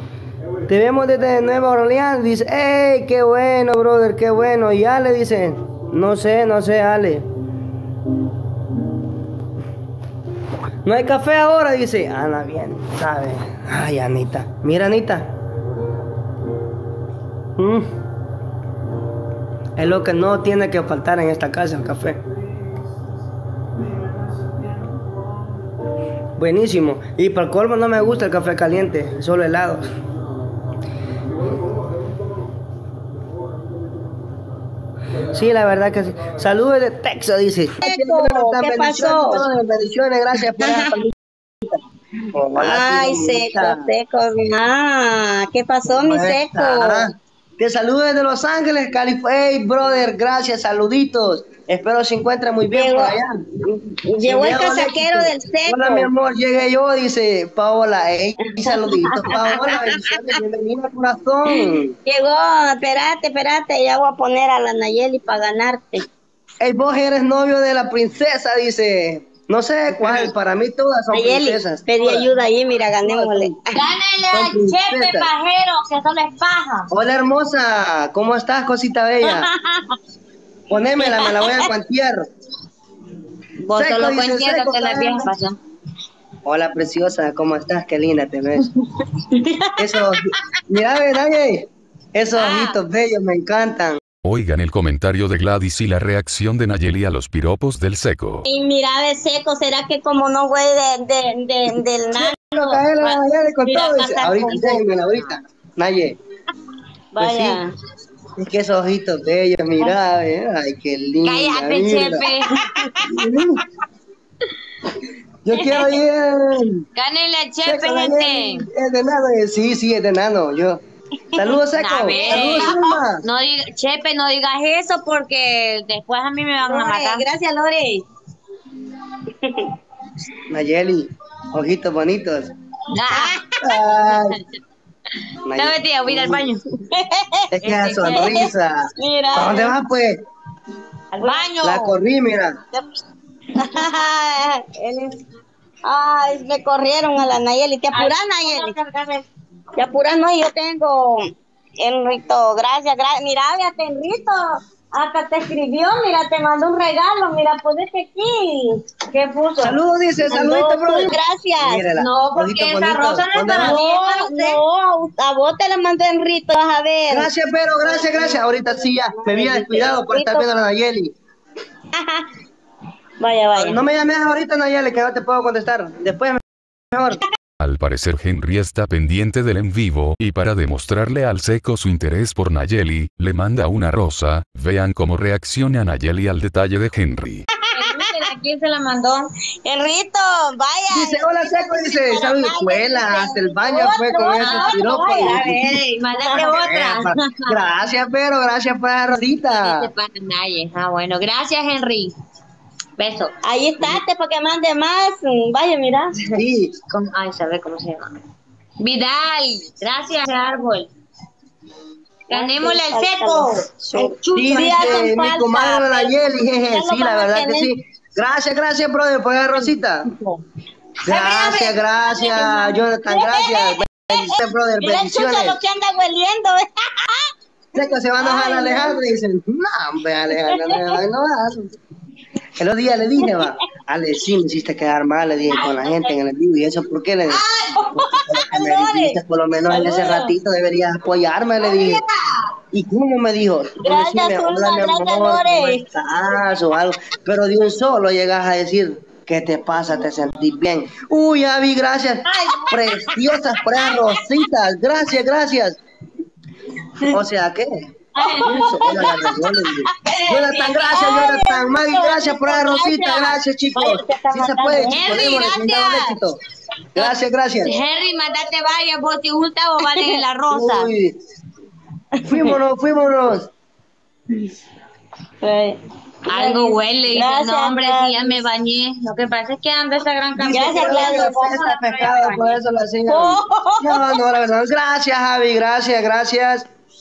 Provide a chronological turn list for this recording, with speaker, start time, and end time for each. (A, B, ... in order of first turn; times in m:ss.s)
0:00.7-0:07.3 A
0:10.8-0:15.3 A
0:17.6-0:17.9 A
0:19.8-0:22.2 A
0:26.4-0:29.8 A
0:35.3-0:41.8 A
0:37.8-0:39.4 B
0:40.6-0:41.0 B
0:42.3-0:43.9 A
0:42.6-0:47.1 B
0:46.0-0:53.3 A
0:52.7-0:56.1 B
0:54.2-1:01.9 A
0:58.7-1:00.0 B
1:02.0-1:06.0 B
1:06.6-1:12.3 A
1:11.1-1:13.6 B
1:13.0-1:13.5 A
1:13.7-1:16.9 C
1:14.3-1:15.3 A
1:16.9-1:19.5 A
1:20.7-1:22.2 A
1:21.0-1:21.7 C
1:23.6-1:25.6 C
1:23.7-1:25.3 A
1:26.4-1:28.7 A
1:29.8-1:34.0 A
1:32.3-1:32.8 C
1:34.2-1:38.4 D
1:38.4-1:42.8 B
1:42.2-1:46.2 A
1:43.0-1:45.2 C
1:47.1-1:47.7 B
1:47.2-1:47.6 A
1:48.4-1:52.3 A
1:51.2-1:53.3 C
1:53.0-1:53.6 A
1:55.4-1:56.8 A
1:55.5-1:56.0 C
1:56.9-1:58.7 C
1:57.6-2:00.8 A
2:01.3-2:03.2 A
2:01.7-2:07.2 C
2:02.1-2:02.7 B
2:06.6-2:08.0 B
2:09.4-2:09.7 B
2:10.5-2:12.5 A
2:12.9-2:14.4 C
2:13.1-2:13.4 B
2:13.6-2:14.4 A
2:15.4-2:16.5 A
2:15.6-2:16.6 C
2:17.1-2:17.4 B
2:17.5-2:20.2 A
2:17.6-2:18.5 C
2:18.1-2:18.5 B
2:19.0-2:19.8 B
2:21.2-2:21.9 C
2:21.2-2:21.5 B
2:21.6-2:22.6 A
2:23.6-2:25.2 B
2:25.8-2:28.8 B
2:27.9-2:29.2 C
2:29.8-2:31.2 B
2:31.8-2:39.0 B
2:39.1-2:39.7 C
2:39.6-2:43.8 A
2:40.3-2:41.8 B
2:41.9-2:44.6 C
2:43.5-2:47.3 B
2:47.1-2:51.2 A
2:48.2-2:50.5 B
2:51.9-2:52.3 B
2:53.2-2:53.8 B
2:53.5-2:57.2 A
2:57.6-3:07.5 D
3:07.7-3:09.3 C
3:07.8-3:08.1 B
3:09.6-3:16.5 B
3:10.9-3:15.8 A
3:14.3-3:17.7 C
3:16.4-3:19.9 A
3:19.5-3:22.1 C
3:23.0-3:23.3 C
3:23.4-3:26.1 B
3:26.3-3:26.8 A
3:26.9-3:28.2 C
3:28.8-3:30.9 C
3:32.3-3:35.2 C
3:32.3-3:36.1 B
3:34.3-3:40.1 A
3:36.7-3:37.7 B
3:41.1-3:45.6 A
3:41.1-3:41.7 C
3:41.2-3:47.3 B
3:47.7-3:51.7 A
3:48.2-3:49.0 B
3:50.4-3:50.9 B
3:52.6-3:57.4 A
3:55.6-3:56.1 C
3:57.9-4:02.0 A
3:58.0-3:59.2 B
3:59.7-4:00.2 B
3:59.7-4:00.3 C
4:01.6-4:02.1 C
4:02.7-4:15.8 A
4:03.8-4:05.8 B
4:12.3-4:14.1 C
4:17.1-4:17.9 A
4:18.2-4:23.2 C
4:18.4-4:26.4 A
4:23.2-4:25.3 B
4:24.7-4:26.1 C
4:26.9-4:27.8 A
4:27.0-4:30.9 C
4:29.8-4:30.2 B
4:30.5-4:31.1 A
4:32.3-4:33.5 A
4:35.4-4:38.4 B
4:36.3-4:42.6 C
4:40.4-4:46.6 A
4:40.5-4:41.6 B
4:43.1-4:44.0 B